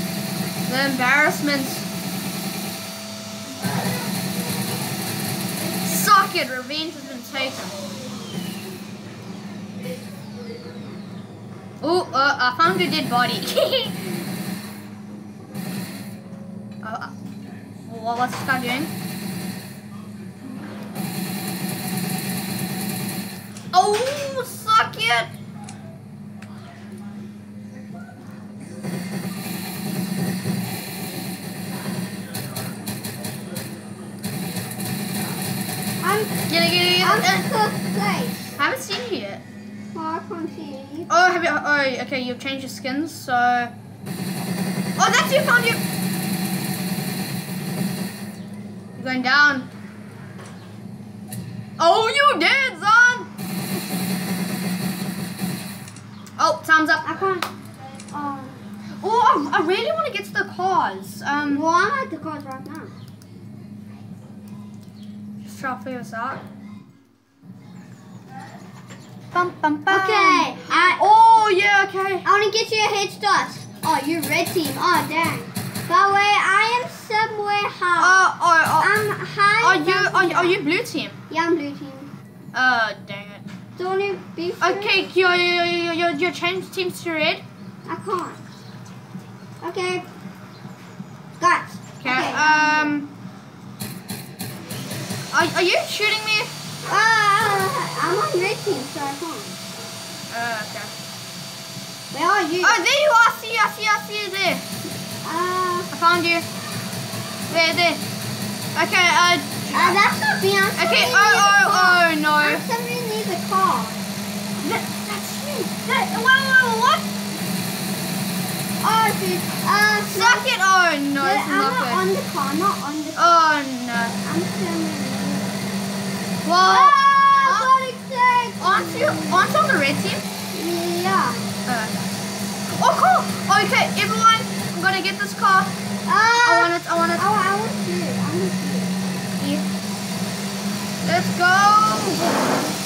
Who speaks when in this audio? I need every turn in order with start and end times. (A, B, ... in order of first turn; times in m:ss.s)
0:00.7-0:01.9 A
0:05.8-0:07.8 A
0:11.8-0:14.2 A
0:16.8-0:17.1 A
0:17.8-0:18.9 A
0:23.7-0:25.3 A
0:36.0-0:36.4 B
0:36.5-0:37.4 A
0:37.0-0:38.5 B
0:38.6-0:39.4 A
0:39.9-0:41.1 B
0:41.1-0:43.7 A
0:45.0-0:45.8 A
0:49.0-0:49.7 A
0:51.8-0:53.3 A
0:56.4-0:57.0 A
0:57.0-0:57.5 B
0:58.1-0:58.6 B
0:59.0-1:01.6 A
1:01.4-1:02.9 B
1:05.4-1:06.4 A
1:09.3-1:12.3 A
1:09.9-1:11.0 B
1:12.2-1:18.2 B
1:18.0-1:18.9 A
1:18.8-1:20.6 B
1:19.6-1:21.2 A
1:21.3-1:22.1 B
1:22.5-1:23.4 A
1:23.8-1:25.0 B
1:24.6-1:27.4 A
1:27.8-1:28.4 B
1:29.6-1:30.0 B
1:31.4-1:32.9 B
1:32.0-1:33.1 A
1:35.3-1:36.5 A
1:36.8-1:39.5 B
1:40.3-1:40.9 A
1:42.1-1:42.8 B
1:42.6-1:44.6 A
1:45.2-1:45.9 B
1:45.9-1:46.4 A
1:47.5-1:48.0 A
1:48.7-1:50.0 A
1:49.7-1:54.0 B
1:50.8-1:52.6 A
1:54.6-1:57.1 A
1:58.8-2:00.4 B
2:00.1-2:02.0 A
2:01.2-2:03.5 B
2:03.2-2:04.2 A
2:04.2-2:05.6 B
2:06.4-2:07.7 A
2:06.6-2:09.6 B
2:08.6-2:10.2 A
2:10.5-2:11.5 B
2:11.6-2:12.0 A
2:12.7-2:15.7 A
2:16.0-2:19.0 B
2:16.4-2:17.3 A
2:19.4-2:19.6 A
2:21.0-2:22.5 A